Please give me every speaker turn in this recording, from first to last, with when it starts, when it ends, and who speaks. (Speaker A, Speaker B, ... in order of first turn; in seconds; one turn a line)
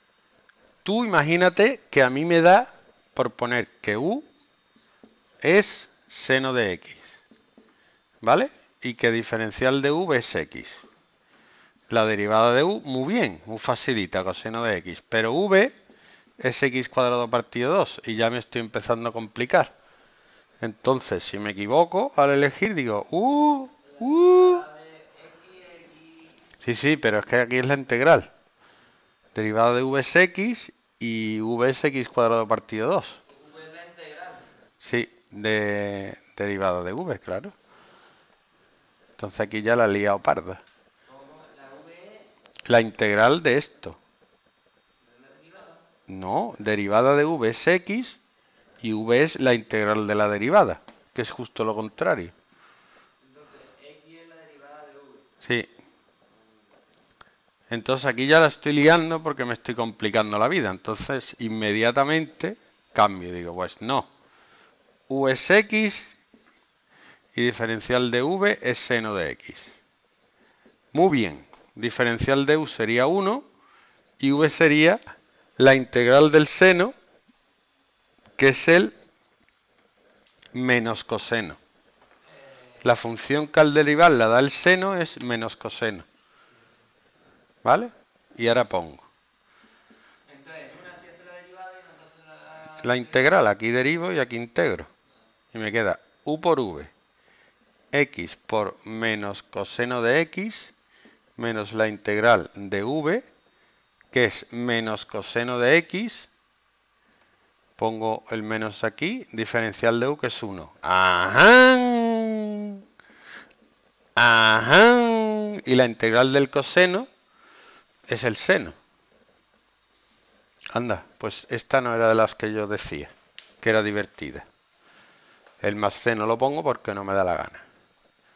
Speaker A: 0.8-4.3
Speaker A: 5.4-7.2
Speaker A: 8.2-10.8
Speaker A: 11.9-15.7
Speaker A: 16.4-19.7
Speaker A: 20.6-24.6
Speaker B: 23.9-26.4
Speaker A: 26.6-28.3
Speaker A: 29.4-33.2
Speaker B: 33.3-34.5
Speaker A: 34.8-37.5
Speaker A: 39.2-40.6
Speaker B: 41.1-42.3
Speaker A: 42.7-44.0
Speaker B: 45.1-45.8
Speaker A: 46.1-48.2
Speaker A: 48.8-52.3
Speaker B: 53.2-55.3
Speaker A: 55.4-55.7
Speaker A: 57.7-64.1
Speaker A: 65.1-66.0
Speaker A: 67.3-69.8
Speaker A: 70.9-73.4
Speaker A: 74.2-75.0
Speaker A: 75.6-76.9
Speaker A: 78.4-79.0
Speaker A: 80.5-81.6
Speaker B: 82.3-82.8
Speaker A: 82.8-86.1
Speaker B: 86.5-86.8
Speaker A: 87.6-89.0
Speaker B: 90.3-93.3
Speaker A: 92.8-94.9
Speaker A: 95.5-96.9
Speaker A: 97.9-100.7
Speaker A: 101.4-103.2
Speaker A: 104.1-106.3
Speaker A: 107.8-112.8
Speaker A: 114.2-117.1
Speaker A: 118.1-118.8
Speaker A: 120.7-124.5
Speaker A: 125.6-127.6